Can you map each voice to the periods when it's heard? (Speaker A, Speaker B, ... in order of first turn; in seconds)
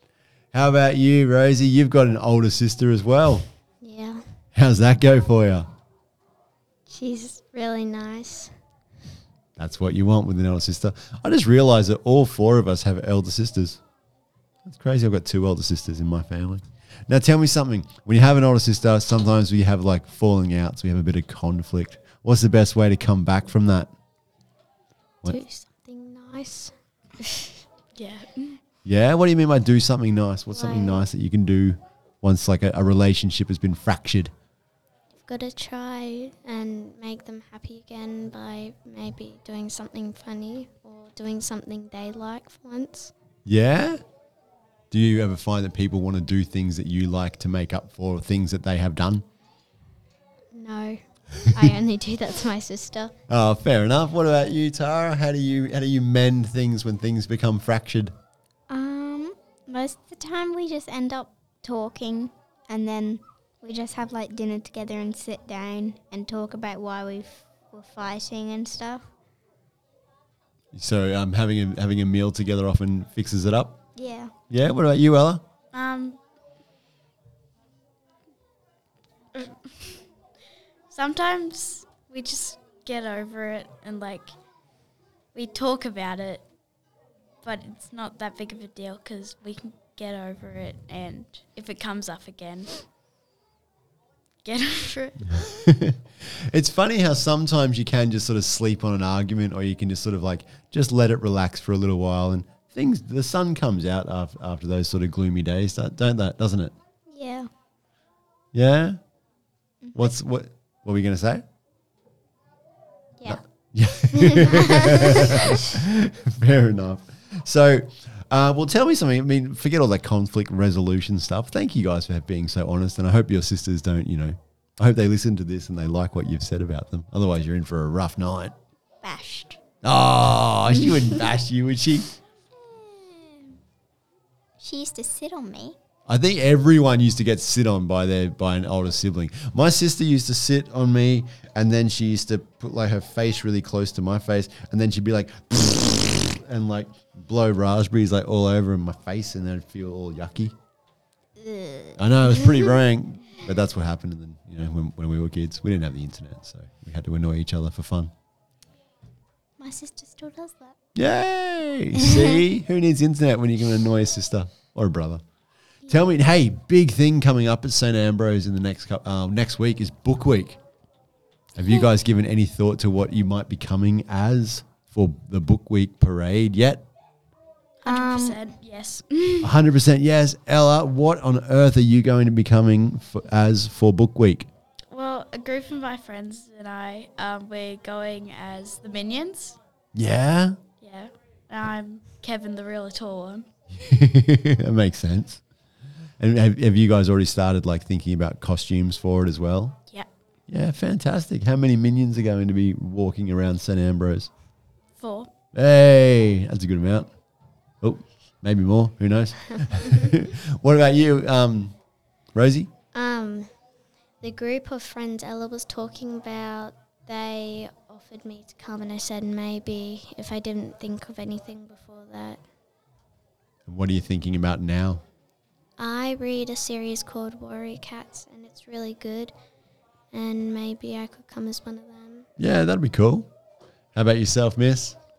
Speaker A: 0.5-3.5, 4.5-5.7, 9.6-13.8, 14.6-23.9, 28.8-34.3, 43.4-44.0, 44.9-49.2, 53.3-58.1, 70.7-73.8, 74.5-75.4, 95.3-106.7, 108.5-109.0, 109.9-111.4, 113.2-128.5, 129.8-132.1, 136.1-150.5, 152.0-158.1, 160.9-165.2, 165.9-170.6, 171.6-176.8, 179.4-184.5, 189.9-190.6, 193.7-195.4, 196.2-199.8, 200.5-204.3, 205.5-207.1, 207.8-211.8, 212.3-212.7, 223.7-225.0, 232.4-233.3, 233.9-235.0
Speaker B: 3.8-4.2, 6.9-8.5, 25.2-26.7, 30.6-31.0, 35.1-43.1, 50.5-53.1, 212.9-213.5, 214.2-222.4, 225.8-229.3, 230.1-232.3
Speaker C: 27.9-28.6, 75.7-76.2, 79.3-80.0, 80.9-84.3, 85.3-86.4, 87.4-92.8, 94.4-95.4, 177.8-179.5, 184.9-189.6, 190.8-193.5, 205.0-205.3
Speaker D: 58.7-69.0, 74.0-74.3, 107.1-107.5, 109.8-110.1, 114.3-115.2, 129.0-129.6, 132.6-133.5, 134.6-135.8, 151.4-152.7, 159.6-160.8, 162.0-162.4, 177.8-178.4